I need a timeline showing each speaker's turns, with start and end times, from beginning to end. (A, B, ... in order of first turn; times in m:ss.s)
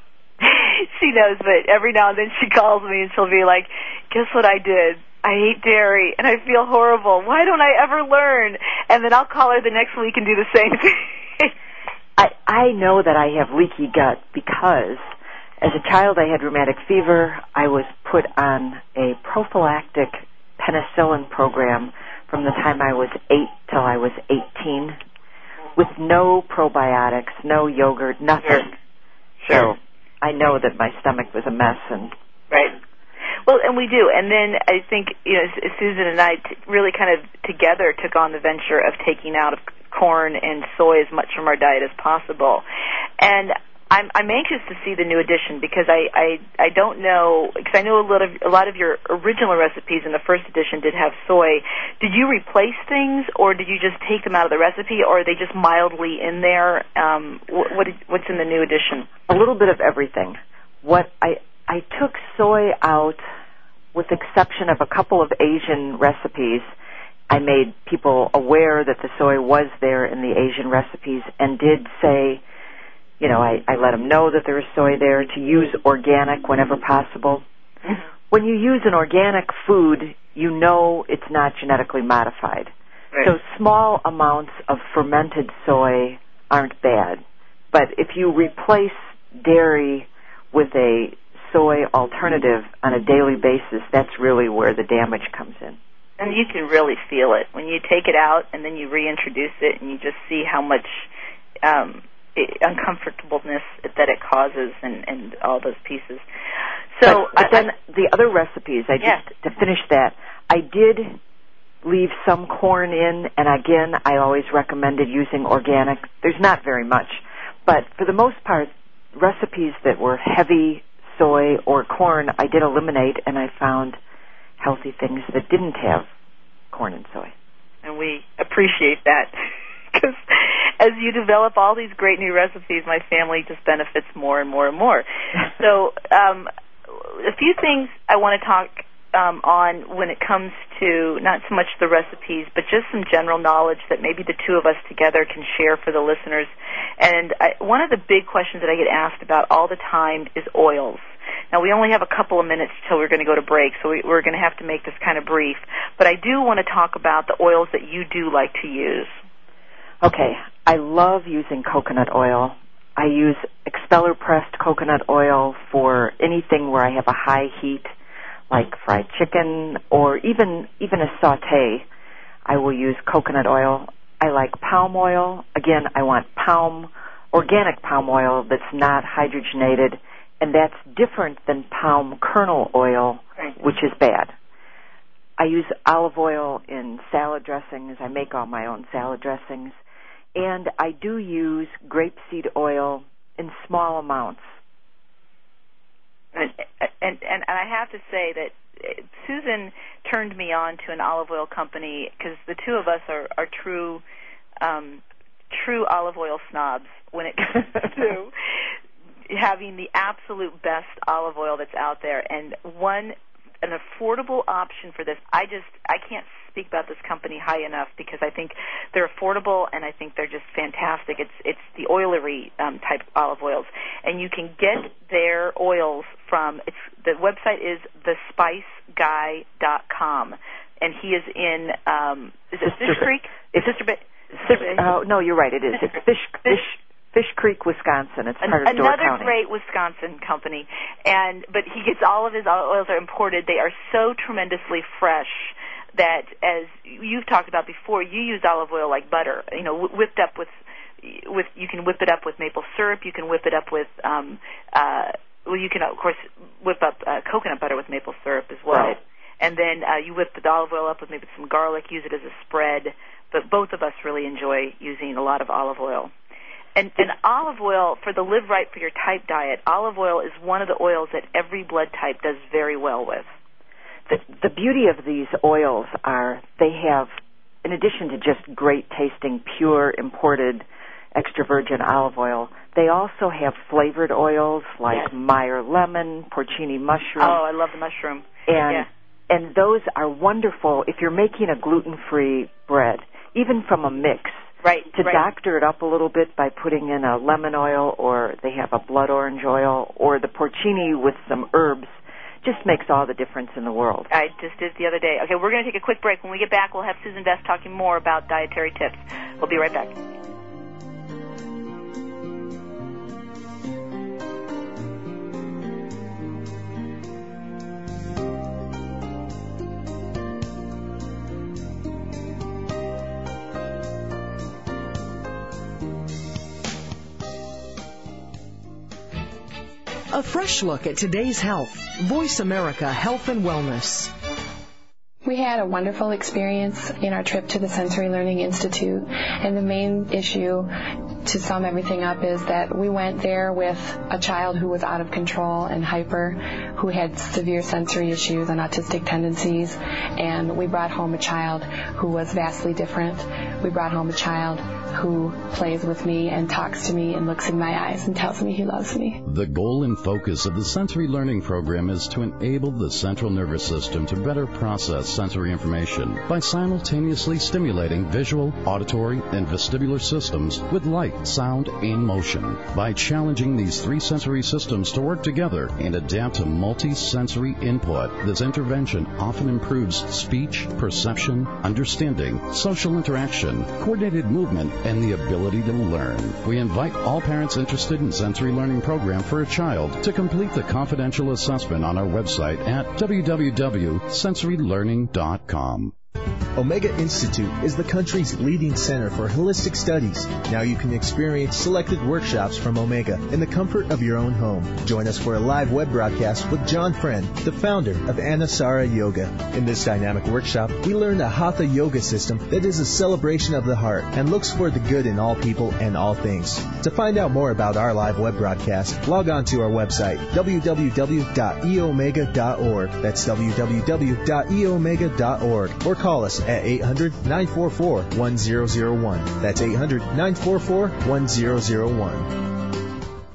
0:00.4-0:11.5 A
0:12.2-0:25.0 B
0:25.8-0:28.7 B
0:29.4-0:29.7 A
0:29.5-0:32.1 B
0:32.5-0:32.8 A
0:33.4-0:42.6 A
0:43.2-0:59.1 A
0:59.3-1:03.2 B
1:03.9-1:06.7 B
1:07.3-1:12.4 B
1:13.2-1:17.4 B
1:18.3-1:35.8 B
1:36.2-1:41.1 A
1:41.6-1:46.2 A
1:47.0-1:47.7 A
1:47.0-1:51.2 B
1:49.0-1:49.2 A
1:51.8-2:04.0 B
2:04.6-2:06.1 B
2:06.7-2:07.3 B
2:07.8-2:09.3 A
2:09.9-2:39.1 A
2:40.0-2:47.9 B
2:48.5-2:51.8 B
2:52.4-3:04.3 B
3:05.4-3:09.8 B
3:10.3-3:14.4 B
3:16.3-3:24.0 A
3:24.6-3:28.3 A
3:29.3-3:54.8 A
3:52.6-3:53.0 B
3:54.4-3:59.3 B
3:58.4-4:26.1 A
4:18.7-4:19.0 B
4:26.8-4:33.3 A
4:34.1-4:37.1 B
4:37.6-4:47.4 B
4:47.2-4:48.9 A
4:48.5-5:04.1 B
4:54.6-4:55.2 A
5:04.1-5:09.9 A
5:30.1-5:34.1 C
5:35.2-5:59.2 D
5:59.2-6:35.9 E
6:36.5-7:12.4 F